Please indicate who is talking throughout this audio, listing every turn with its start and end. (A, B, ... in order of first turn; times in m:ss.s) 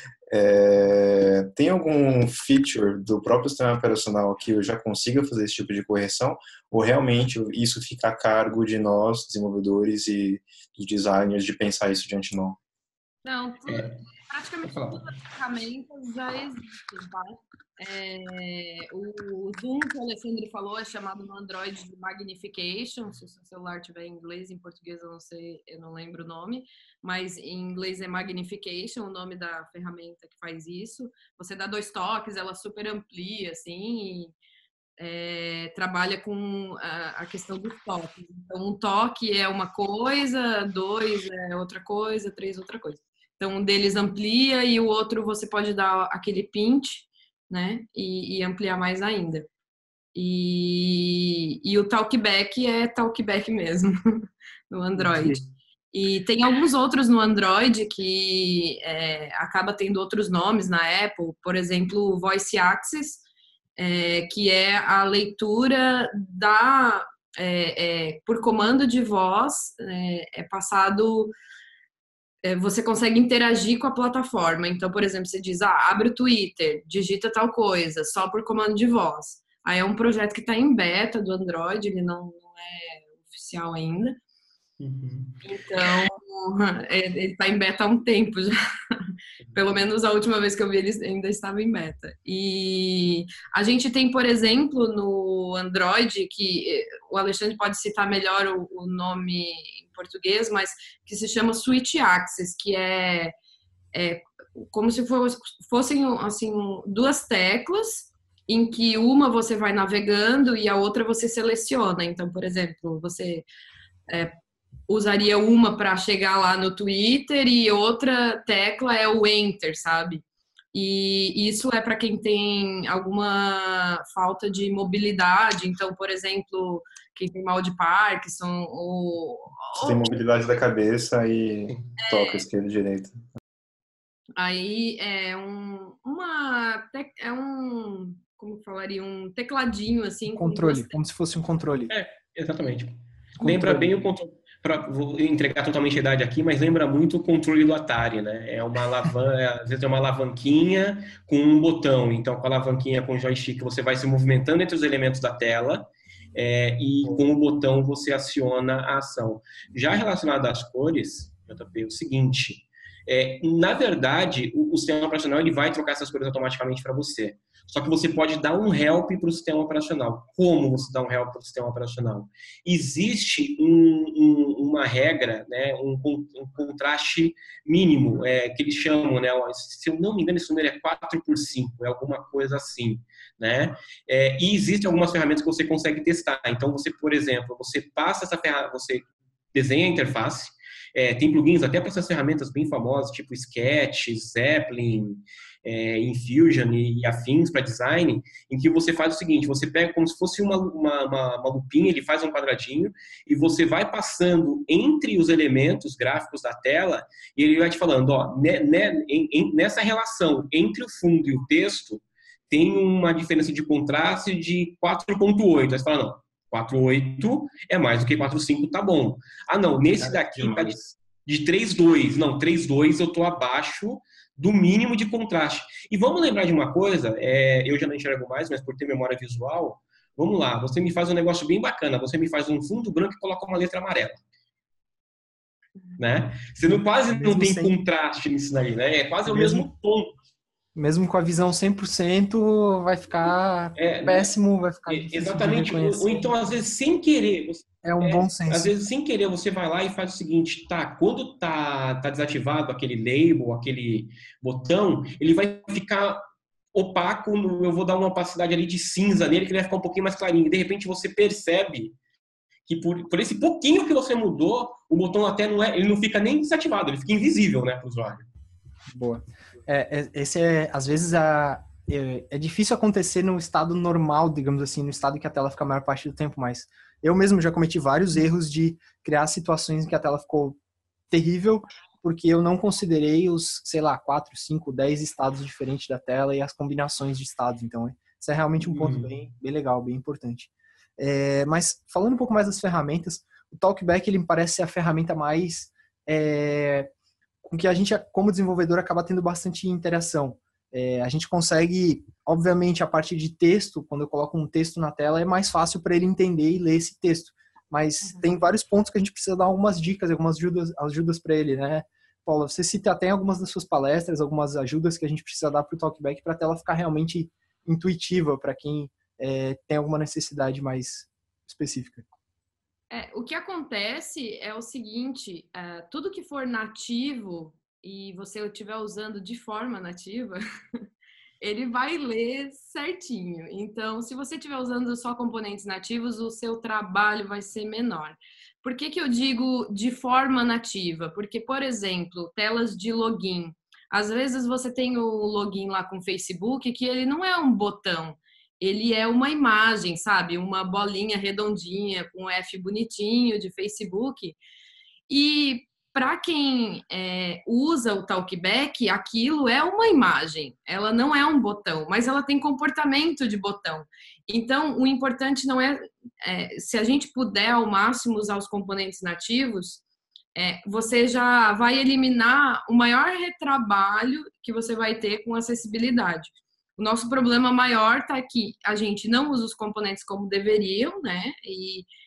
0:00.3-0:12.6 A
0:13.2-0:34.4 B
0:13.7-0:14.0 C
0:14.6-0:15.1 C
0:35.0-0:49.5 B
0:50.1-1:03.2 B
0:55.0-0:55.4 D
1:03.8-1:11.3 B
1:12.4-1:24.2 B
1:24.8-1:26.0 C
1:25.4-1:43.3 B
1:43.9-1:53.4 B
1:54.1-1:54.4 B
1:54.9-2:10.1 B
2:09.7-2:13.2 A
2:12.0-2:12.4 B
2:14.4-2:21.0 B
2:20.3-2:21.9 D
2:21.9-3:54.2 C
2:23.4-2:23.9 D
3:40.1-3:40.8 A
3:56.0-4:00.1 C
3:56.6-3:57.7 D
3:59.3-3:59.7 D
4:00.7-4:06.3 D
4:03.8-4:04.3 C
4:04.9-4:16.2 C
4:07.8-4:08.7 D
4:16.7-4:22.0 C
4:22.6-4:28.3 C
4:28.9-4:40.6 D
4:41.1-4:56.9 D
4:48.6-4:49.1 C
4:57.4-5:22.1 D
5:22.9-5:30.4 B
5:31.4-5:54.4 B
5:55.1-6:09.8 B
6:10.4-6:21.9 B